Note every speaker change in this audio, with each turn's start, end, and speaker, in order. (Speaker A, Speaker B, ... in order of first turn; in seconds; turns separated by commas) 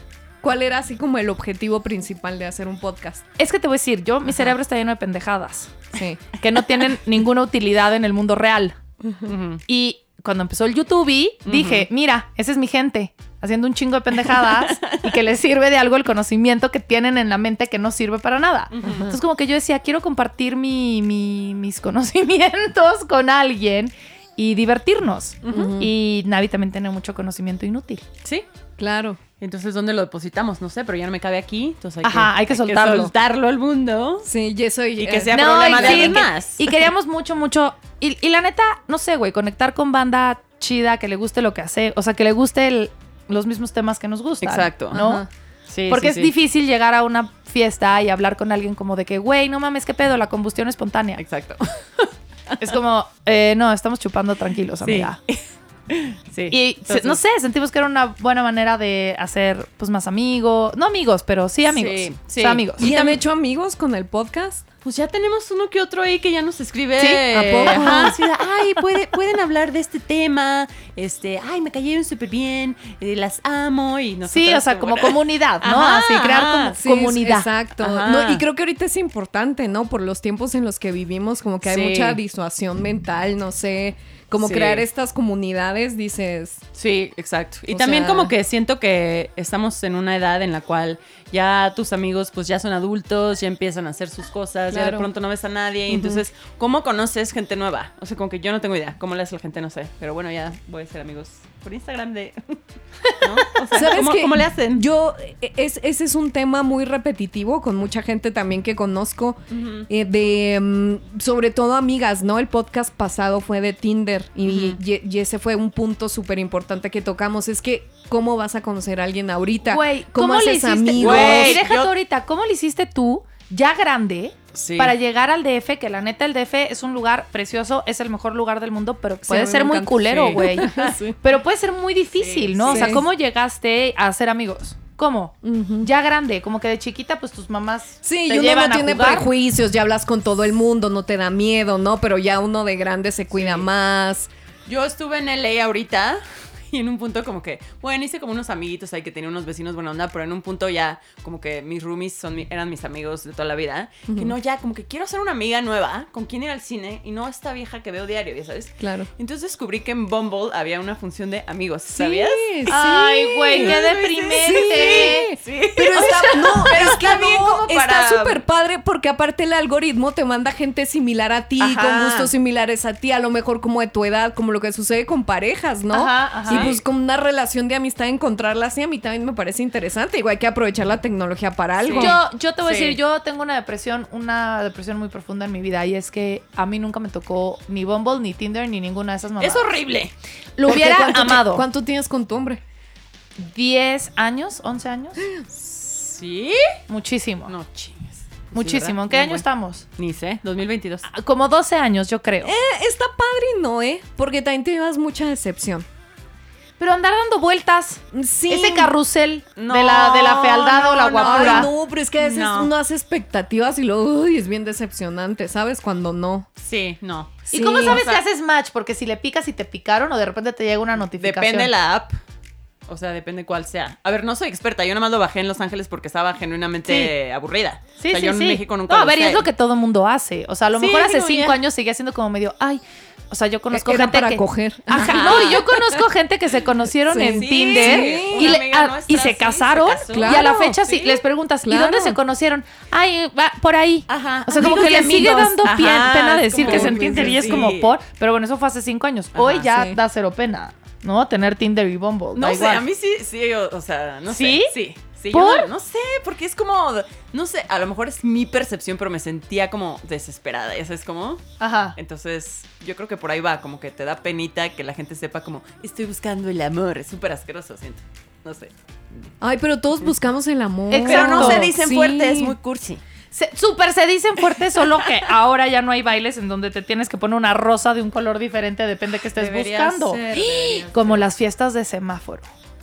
Speaker A: 0.4-3.2, Speaker B: 3.4-5.8, Speaker A: 5.9-6.2, Speaker B: 6.4-8.8, Speaker A: 9.0-9.3, Speaker C: 9.3-9.6, Speaker B: 9.7-28.0, Speaker C: 11.5-11.9, Speaker C: 14.2-15.1, Speaker C: 18.7-19.1, Speaker A: 18.8-19.2, Speaker C: 25.4-25.8, Speaker A: 25.5-25.9, Speaker A: 28.8-29.2, Speaker C: 29.4-34.3, Speaker B: 32.0-33.1, Speaker A: 34.2-36.2, Speaker C: 35.0-36.8, Speaker B: 35.3-45.2, Speaker C: 44.4-45.0, Speaker A: 44.9-45.3, Speaker C: 45.7-46.3, Speaker B: 45.9-51.2, Speaker C: 51.2-52.7, Speaker B: 52.6-55.2, Speaker C: 54.8-57.2, Speaker B: 56.5-63.0, Speaker C: 61.7-63.1, Speaker A: 62.8-64.7, Speaker C: 64.8-76.8, Speaker B: 67.0-68.0, Speaker A: 67.3-68.2, Speaker B: 74.3-77.5, Speaker A: 76.8-86.6, Speaker C: 77.8-78.4, Speaker C: 81.6-82.2, Speaker C: 84.4-84.8, Speaker C: 86.8-104.8, Speaker A: 87.7-88.3, Speaker A: 94.7-95.1, Speaker A: 95.9-96.2, Speaker A: 103.7-121.6, Speaker C: 109.5-109.9, Speaker C: 114.5-114.8, Speaker B: 119.6-139.3, Speaker C: 121.0-121.9, Speaker C: 124.5-125.0, Speaker A: 129.2-131.2, Speaker C: 130.1-131.0, Speaker C: 132.2-133.0, Speaker A: 132.7-133.0, Speaker A: 135.4-135.9, Speaker A: 138.0-144.3, Speaker C: 143.3-143.7, Speaker C: 144.7-168.4, Speaker A: 154.1-154.3, Speaker A: 158.8-159.1, Speaker A: 161.9-163.8, Speaker B: 162.7-165.3, Speaker A: 164.3-182.2, Speaker B: 166.0-166.4, Speaker C: 171.6-172.3, Speaker B: 175.9-176.7, Speaker C: 176.5-176.8, Speaker C: 181.8-183.0, Speaker B: 182.0-189.8, Speaker C: 189.4-190.1, Speaker B: 190.6-191.7, Speaker A: 190.7-192.6, Speaker B: 193.4-195.2, Speaker C: 195.6-196.8, Speaker B: 196.9-197.5, Speaker C: 197.5-199.4, Speaker B: 198.5-199.8, Speaker C: 200.0-201.1, Speaker B: 201.1-202.5, Speaker A: 202.4-205.9, Speaker B: 206.8-211.7, Speaker A: 208.1-208.9, Speaker C: 209.6-212.7, Speaker A: 211.2-216.5, Speaker C: 216.6-218.2, Speaker B: 217.5-221.7, Speaker A: 217.5-218.0, Speaker C: 221.2-222.2, Speaker C: 222.9-229.5, Speaker B: 226.9-227.1, Speaker B: 228.0-252.8, Speaker C: 230.7-231.6, Speaker A: 233.7-236.0, Speaker C: 234.9-235.7, Speaker A: 237.1-238.6, Speaker C: 237.2-241.2, Speaker A: 240.1-240.8, Speaker A: 241.6-242.2, Speaker C: 244.1-248.0, Speaker A: 246.6-247.7, Speaker C: 249.3-249.7, Speaker A: 249.6-250.0, Speaker C: 252.4-261.4, Speaker B: 254.3-254.7, Speaker B: 255.3-255.7, Speaker B: 261.6-262.0, Speaker C: 261.9-268.7, Speaker A: 269.4-272.6, Speaker B: 270.9-271.7, Speaker C: 271.1-273.0, Speaker B: 273.3-282.5, Speaker C: 279.3-281.2, Speaker A: 280.3-280.7